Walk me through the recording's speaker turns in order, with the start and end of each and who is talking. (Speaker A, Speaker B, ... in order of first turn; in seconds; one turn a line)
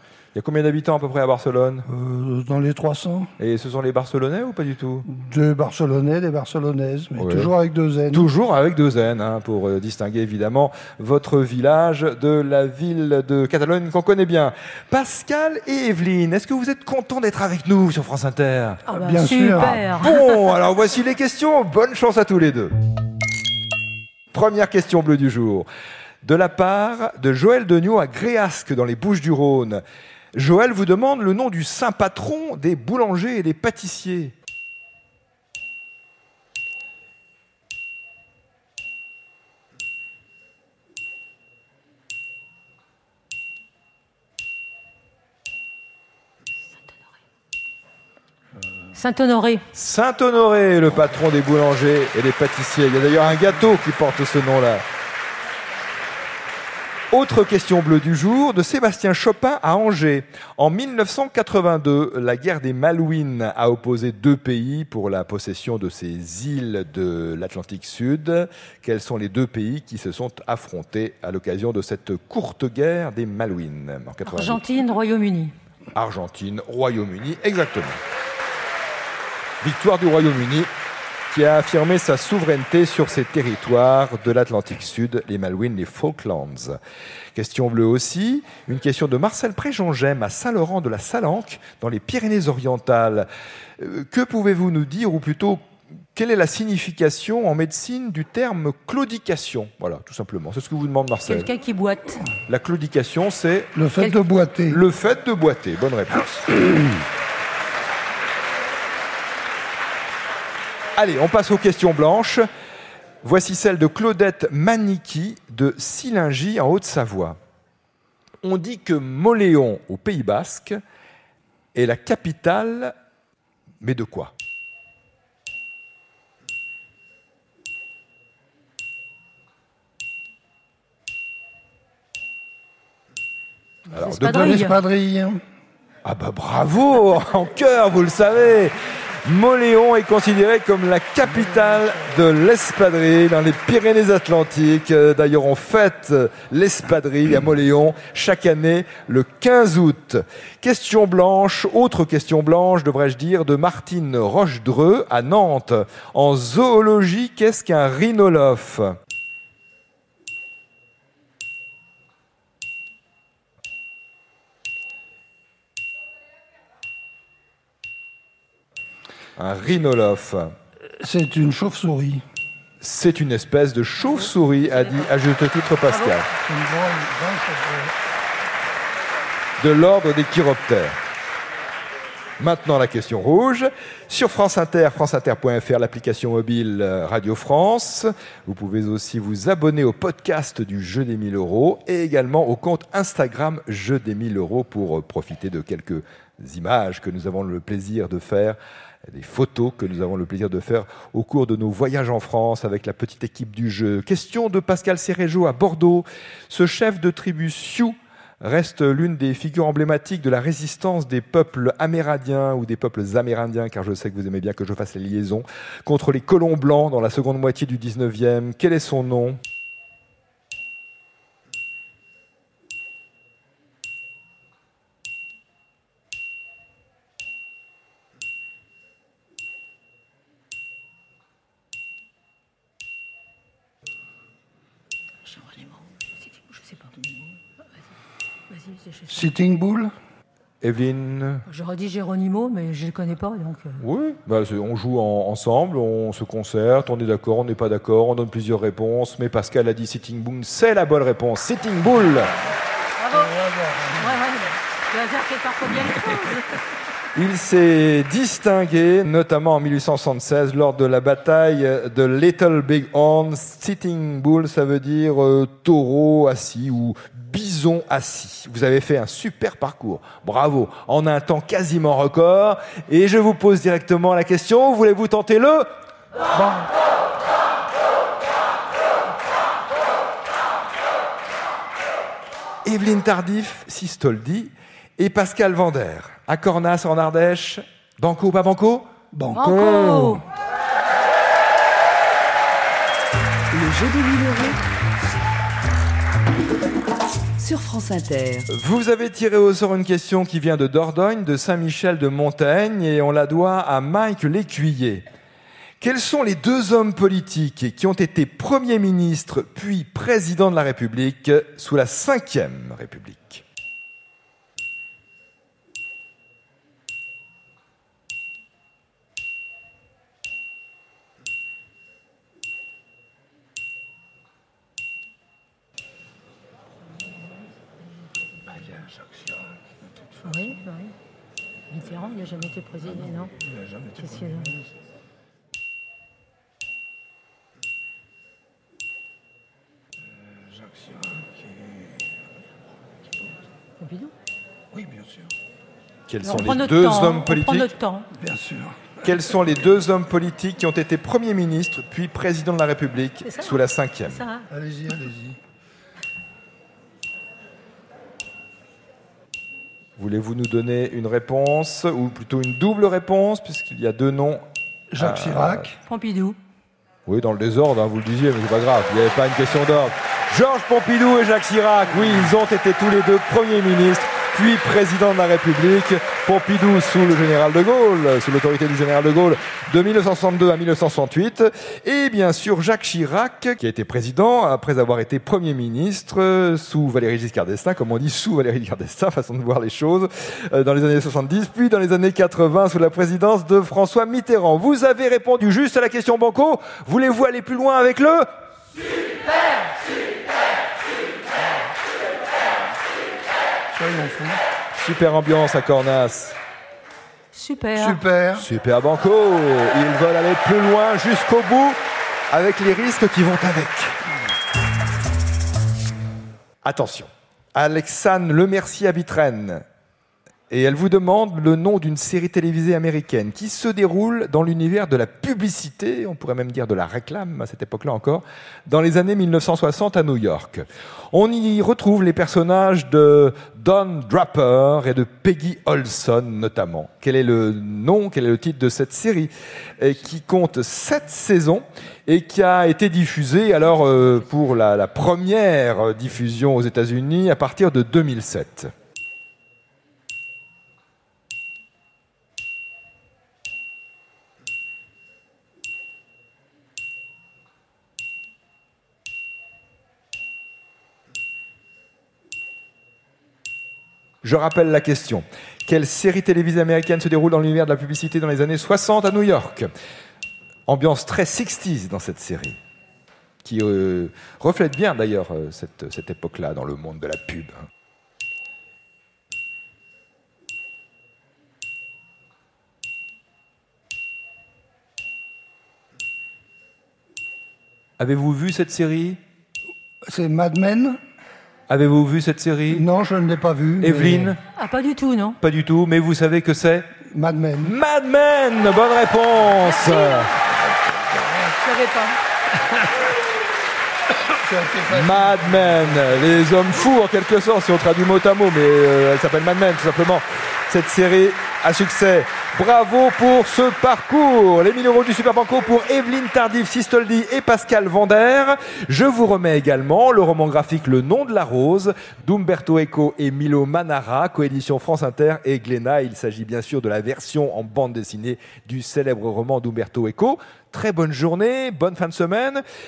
Speaker A: 0.3-1.9
Speaker B: 1.9-3.3
Speaker A: 3.4-5.1
Speaker B: 5.1-8.3
Speaker A: 7.2-7.5
Speaker A: 8.1-18.9
Speaker B: 18.9-19.8
Speaker C: 18.9-20.4
Speaker A: 19.5-22.7
Speaker A: 24.3-25.7
Speaker A: 26.2-29.8
Speaker A: 30.3-34.3
Speaker C: 48.9-49.6
Speaker A: 49.7-54.8
Speaker A: 57.1-74.6
Speaker C: 74.2-75.5
Speaker A: 75.9-78.0
Speaker A: 79.6-80.7
Speaker A: 81.3-86.8
Speaker A: 87.3-95.6
Speaker A: 96.1-101.5
Speaker C: 101.3-102.2
Speaker A: 102.5-103.7
Speaker B: 103.7-104.8
Speaker A: 104.7-106.6
Speaker A: 111.0-112.5
Speaker A: 113.2-117.4
Speaker A: 118.4-120.8
Speaker A: 121.7-122.9
Speaker A: 123.8-124.3
Speaker C: 133.9-134.8
Speaker A: 133.9-134.7
Speaker B: 134.3-135.4
Speaker A: 136.0-138.7
Speaker A: 139.2-158.9
Speaker A: 169.4-170.5
Speaker B: 170.9-172.2
Speaker A: 172.8-176.3
Speaker C: 174.0-175.1
Speaker C: 175.9-176.2
Speaker B: 176.4-177.9
Speaker A: 179.6-180.9
Speaker A: 182.4-219.4
Speaker C: 235.2-237.0
Speaker C: 238.5-239.3
Speaker B: 239.1-239.9
Speaker A: 240.6-241.4
Speaker C: 241.5-243.8
Speaker A: 243.8-252.3
Speaker C: 253.0-253.4
Speaker B: 253.1-254.2
Speaker C: 254.0-256.6
Speaker A: 257.1-275.7
Speaker A: 282.6-288.9
Speaker B: 289.1-290.2
Speaker C: 289.3-290.2
Speaker D: 293.5-294.6
Speaker D: 297.4-298.4
Speaker A: 298.5-305.0
Speaker A: 305.8-313.4
Speaker C: 328.5-328.9
Speaker C: 330.2-330.9
Speaker C: 331.7-334.6
Speaker B: 340.3-342.0
Speaker C: 343.8-344.1
Speaker B: 344.7-345.3
Speaker A: 346.1-347.7
Speaker C: 346.2-348.1
Speaker B: 348.1-349.1
Speaker A: 349.0-354.2
Speaker C: 353.2-354.5
Speaker B: 354.5-355.4
Speaker A: 360.0-364.4
Speaker B: 364.9-365.8
Speaker A: 365.0-365.7
Speaker C: 365.8-366.4
Speaker A: 367.1-398.3
Speaker B: 403.7-404.4
Speaker A: 404.7-406.4
Speaker C: 407.3-408.0
Speaker B: 407.8-408.4
Speaker A: 408.4-411.8
Speaker A: 412.3-414.0
Speaker A: 416.6-419.6
Speaker A: 420.5-448.7
Speaker A: 464.2-469.7
Speaker A: 470.7-472.6
Speaker A: 473.4-477.6
Speaker A: 488.0-489.2
Speaker B: 490.0-491.0
Speaker A: 491.7-492.8
Speaker B: 492.7-494.4
Speaker A: 493.8-494.4
Speaker C: 494.5-495.4
Speaker A: 495.4-496.9
Speaker B: 497.1-497.7
Speaker A: 497.6-500.3
Speaker C: 499.6-500.3
Speaker C: 501.6-502.2
Speaker B: 504.3-506.1
Speaker A: 504.9-532.6